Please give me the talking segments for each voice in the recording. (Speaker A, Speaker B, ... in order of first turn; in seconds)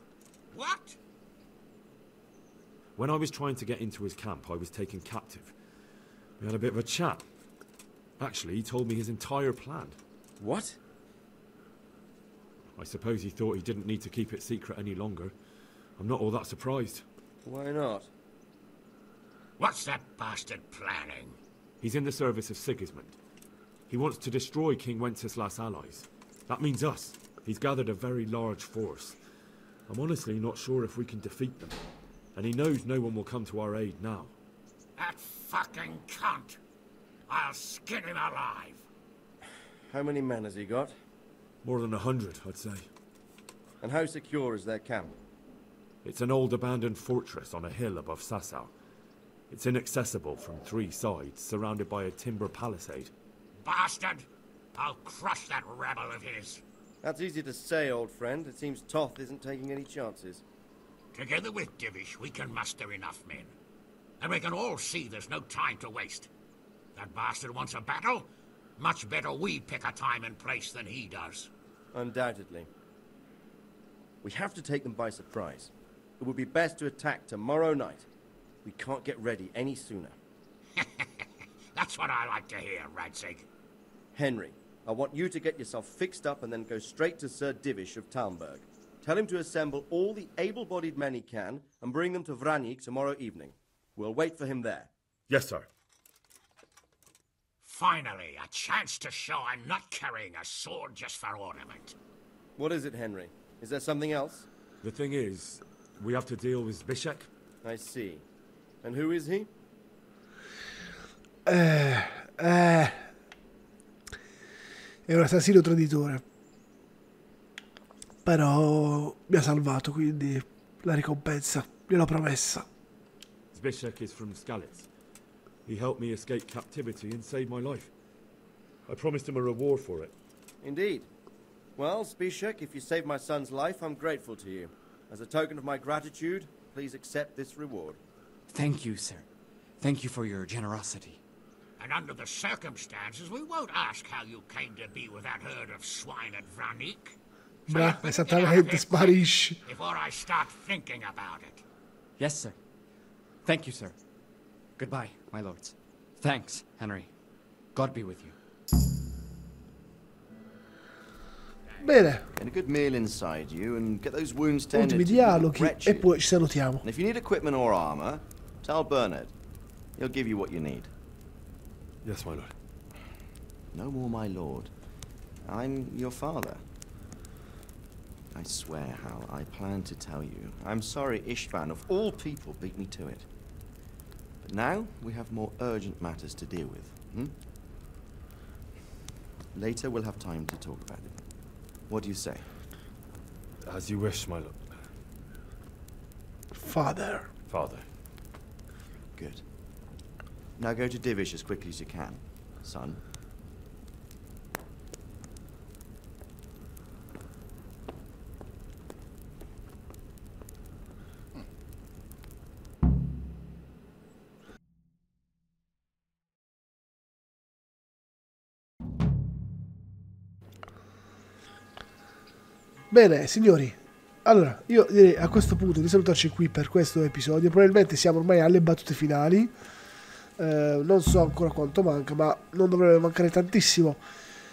Speaker A: 0.5-1.0, 19.6-21.4, 35.0-36.6, 37.3-38.8, 53.6-56.6, 61.1-63.5, 64.2-66.3, 67.0-71.5, 80.8-83.5, 97.6-102.0, 141.8-147.2, 147.7-151.6
Speaker B: 3.0-5.5, 6.4-7.2, 8.2-10.0, 12.8-15.3, 16.0-17.1, 21.8-23.2, 23.9-29.2, 29.9-31.8, 32.4-34.3, 41.6-42.9, 46.0-48.7, 49.5-53.1, 95.3-95.7, 104.8-107.3, 123.5-124.9, 125.7-127.9, 128.9-130.2, 172.0-172.5, 193.7-194.8, 197.5-197.8
Speaker C: 10.4-10.8, 17.4-18.1, 39.9-40.9, 43.8-45.2, 57.0-60.4, 71.9-72.7, 74.2-78.1, 78.6-80.2, 84.2-94.9, 102.6-104.5, 107.6-108.2, 108.8-109.5, 130.6-131.1, 131.8-138.0
Speaker D: 111.5-113.1, 115.1-116.2, 118.2-122.7, 147.7-149.6, 161.8-162.3, 164.7-166.9, 196.5-197.3, 222.9-229.5, 230.4-234.0
Speaker E: 138.5-139.3, 139.8-141.2, 152.2-152.6, 153.4-153.9, 154.8-157.1, 157.7-158.3
Speaker F: 162.4-166.1, 166.8-169.3, 170.0-170.9, 173.7-174.7, 175.4-176.6, 178.3-183.3, 184.4-187.3, 189.5-191.2, 191.9-192.5, 199.2-199.4, 200.6-203.0